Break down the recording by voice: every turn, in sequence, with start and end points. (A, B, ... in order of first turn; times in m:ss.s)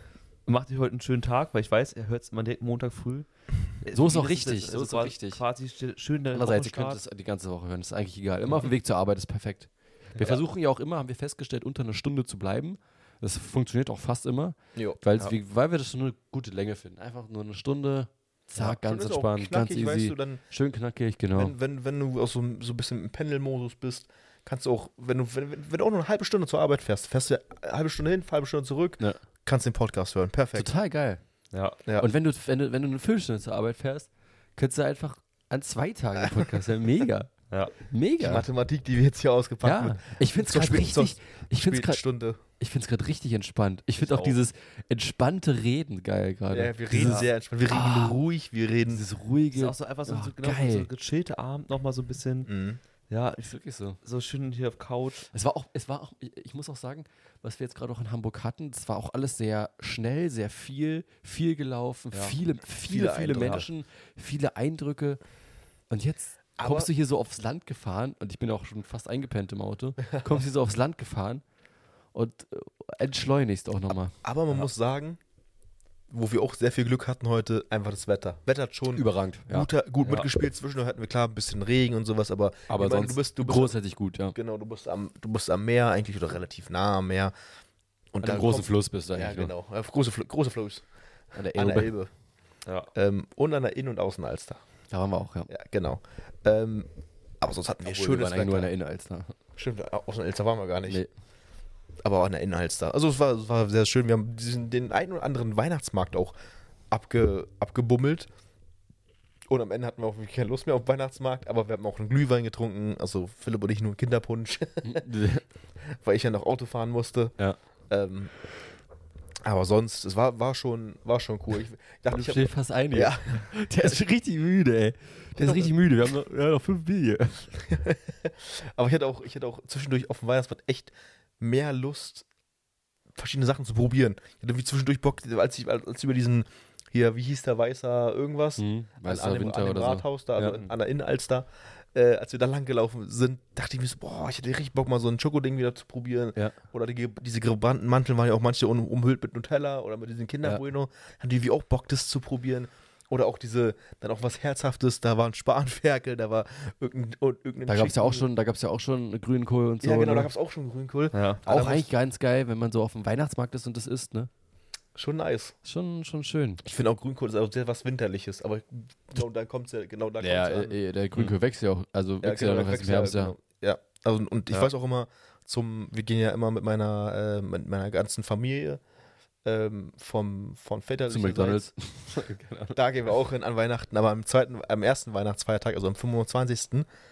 0:00.5-0:07.0 A
0:03.9-0:05.4 B
0:06.3-0:21.5 B
0:10.2-0:10.4 A
0:18.6-0:20.4 C
0:21.3-0:30.7 C
0:30.5-0:31.2 B
0:31.5-0:31.8 A
0:32.0-0:38.5 B
0:38.2-0:42.4 C
0:39.6-0:42.0 B
0:42.6-0:48.2 B
0:44.0-0:44.4 A
0:46.5-0:49.0 C
0:46.9-0:47.3 A
0:48.9-0:50.9 B
0:49.5-0:52.5 A
0:52.5-0:52.8 C
0:53.1-0:55.3 A
0:53.4-0:54.0 B
0:55.3-1:05.2 B
1:02.1-1:02.4 A
1:02.8-1:03.7 C
1:03.4-1:03.6 A
1:05.9-1:11.4 B
1:06.6-1:06.9 C
1:12.1-1:14.7 B
1:14.2-1:15.2 C
1:16.1-1:23.8 C
1:18.9-1:20.3 B
1:22.7-1:24.4 B
1:24.3-1:27.3 C
1:28.1-1:30.8 C
1:28.2-1:29.5 B
1:31.4-1:31.9 B
1:31.5-1:32.1 C
1:32.9-1:34.6 C
1:34.9-1:35.5 B
1:35.5-1:36.9 C
1:37.4-1:38.7 C
1:37.8-1:39.4 B
1:39.6-1:41.0 C
1:42.0-1:46.4 C
1:46.9-1:48.3 C
1:49.5-1:55.1 C
1:54.8-1:55.4 B
1:55.9-1:57.4 C
1:57.9-1:58.4 C
1:59.4-2:04.0 C
2:02.1-2:07.6 B
2:05.4-2:05.7 C
2:07.6-2:12.3 C
2:13.2-2:38.3 C
2:18.6-2:20.6 B
2:20.4-2:20.7 A
2:37.7-2:40.3 B
2:39.8-2:41.9 C
2:41.1-2:41.4 A
2:41.4-2:44.3 B
2:45.0-2:45.6 C
2:45.6-2:46.6 B
2:46.6-2:50.8 C
2:50.2-2:53.4 B
2:52.2-2:58.8 C
2:59.4-3:01.7 C
3:01.1-3:02.8 B
3:02.7-3:06.9 C